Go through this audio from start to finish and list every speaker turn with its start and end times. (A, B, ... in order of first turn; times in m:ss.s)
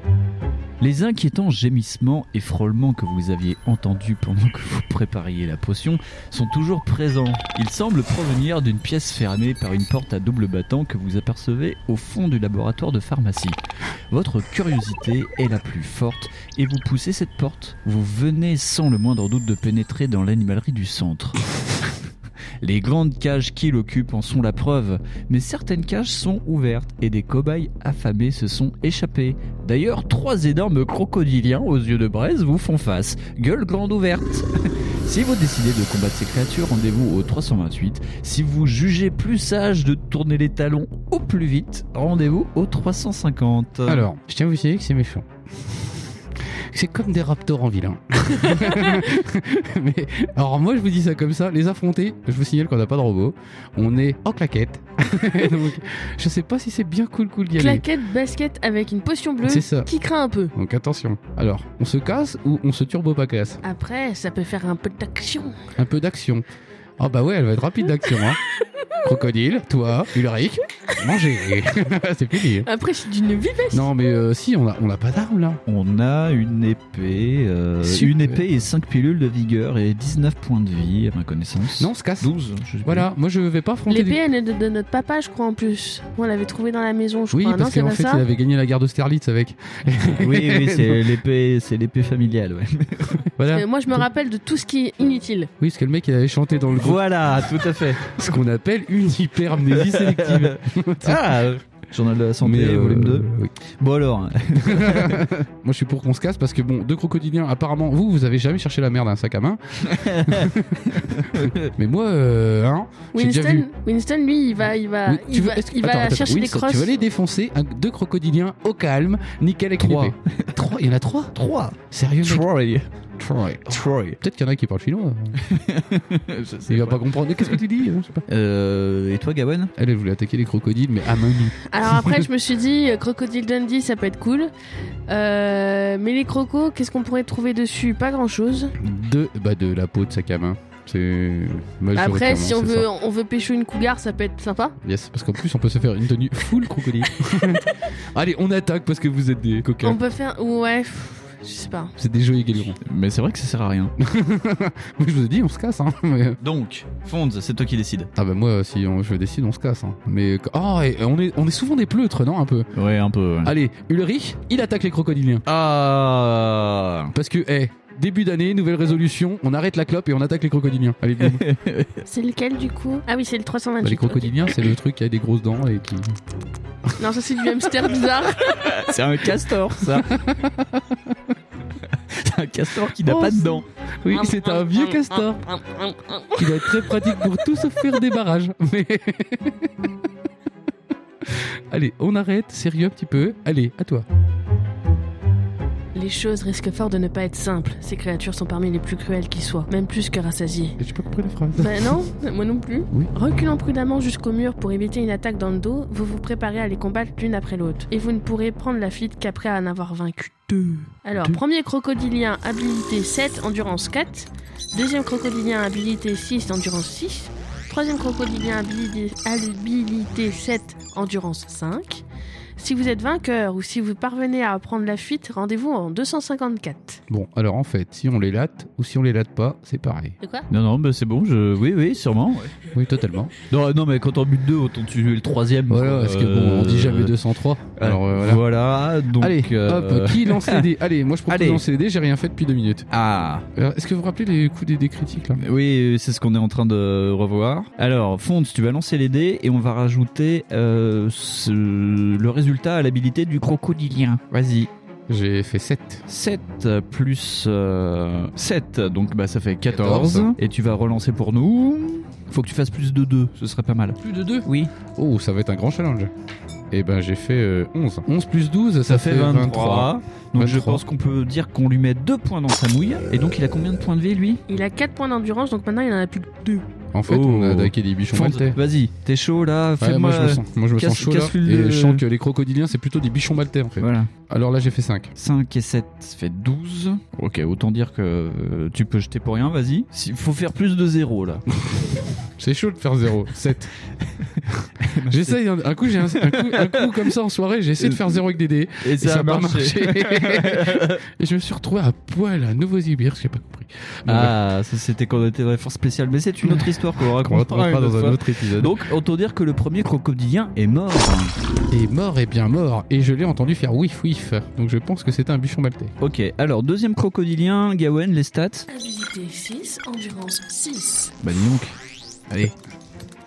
0:00.8-0:13.6 A
0:14.1-0:21.4 A
0:22.6-0:44.1 A
0:43.9-0:57.8 B
0:48.6-0:49.0 C
0:57.6-1:00.5 C
0:59.4-0:59.9 B
1:00.6-1:03.6 B
1:03.6-1:05.6 C
1:05.8-1:06.4 B
1:07.0-1:08.4 B
1:09.0-1:12.7 B
1:12.6-1:13.9 C
1:13.7-1:15.6 B
1:15.7-1:23.1 A
1:17.8-1:18.4 B
1:21.8-1:22.3 B
1:22.8-1:24.2 B
1:23.9-1:28.2 C
1:27.3-1:31.0 B
1:30.0-1:33.2 A
1:33.4-1:34.1 B
1:33.5-1:35.5 C
1:35.6-1:41.2 B
1:36.8-1:38.4 A
1:39.7-1:43.3 A
1:42.4-1:43.5 B
1:43.8-1:45.3 A
1:44.6-1:53.7 B
1:49.9-1:51.7 A
1:53.1-1:56.9 C
1:55.1-2:02.5 B
1:59.8-2:00.6 A
2:01.4-2:02.9 A
2:03.2-2:05.4 B
2:03.7-2:04.2 A
2:05.4-2:07.6 A
2:06.7-2:08.3 B
2:08.3-2:09.7 A
2:09.8-2:12.2 B
2:11.7-2:14.5 C
2:15.1-2:18.7 C
2:18.8-2:22.9 B
2:22.0-2:24.8 C
2:24.8-2:30.0 B
2:29.8-2:32.0 C
2:32.0-2:32.8 B
2:32.8-2:33.9 A
2:34.0-2:36.4 B
2:36.4-2:38.1 A
2:38.2-2:42.7 B
2:42.8-2:43.5 A
2:43.4-2:45.5 B
2:45.5-2:47.1 A
2:47.1-2:51.4 B
2:51.2-2:52.0 A
2:52.1-2:54.6 C
2:53.8-2:56.2 B
2:57.0-2:58.9 C
2:58.5-3:00.2 A
2:59.8-3:01.2 B
3:02.0-3:03.6 A
3:03.1-3:05.4 B
3:04.1-3:06.9 C
3:06.4-3:09.9 B
3:11.2-3:14.1 B
3:15.9-3:20.8 C
3:20.8-3:22.0 B
3:21.6-3:42.0 C
3:42.6-3:47.0 C
3:47.1-3:50.2 B
3:50.2-3:50.5 C
3:50.5-3:52.6 A
3:52.7-3:53.3 B
3:53.4-3:57.2 A
3:55.7-3:58.4 B
3:57.8-4:00.7 A
3:59.2-4:02.9 B
4:01.3-4:01.6 A
4:02.9-4:03.4 A
4:03.5-4:05.4 B
4:05.4-4:14.7 A
4:15.1-4:16.0 B
4:16.1-4:24.7 A
4:19.7-4:20.4 B
4:24.0-4:26.1 B
4:26.7-4:30.8 B
4:28.9-4:34.4 A
4:34.5-4:36.6 C
4:36.9-4:38.6 B
4:37.1-4:42.0 A
4:39.8-4:45.1 B
4:43.8-4:44.1 A
4:45.2-4:51.5 A
4:52.4-4:53.7 B
4:54.1-4:55.4 A
4:55.1-5:04.4 B
4:56.0-4:57.1 A
4:57.8-4:58.2 A
4:58.8-5:01.0 A
5:04.1-5:11.3 A
5:06.4-5:08.8 B
5:11.7-5:15.9 B
5:16.0-5:18.7 A
5:18.7-5:21.2 C
5:21.2-5:21.8 A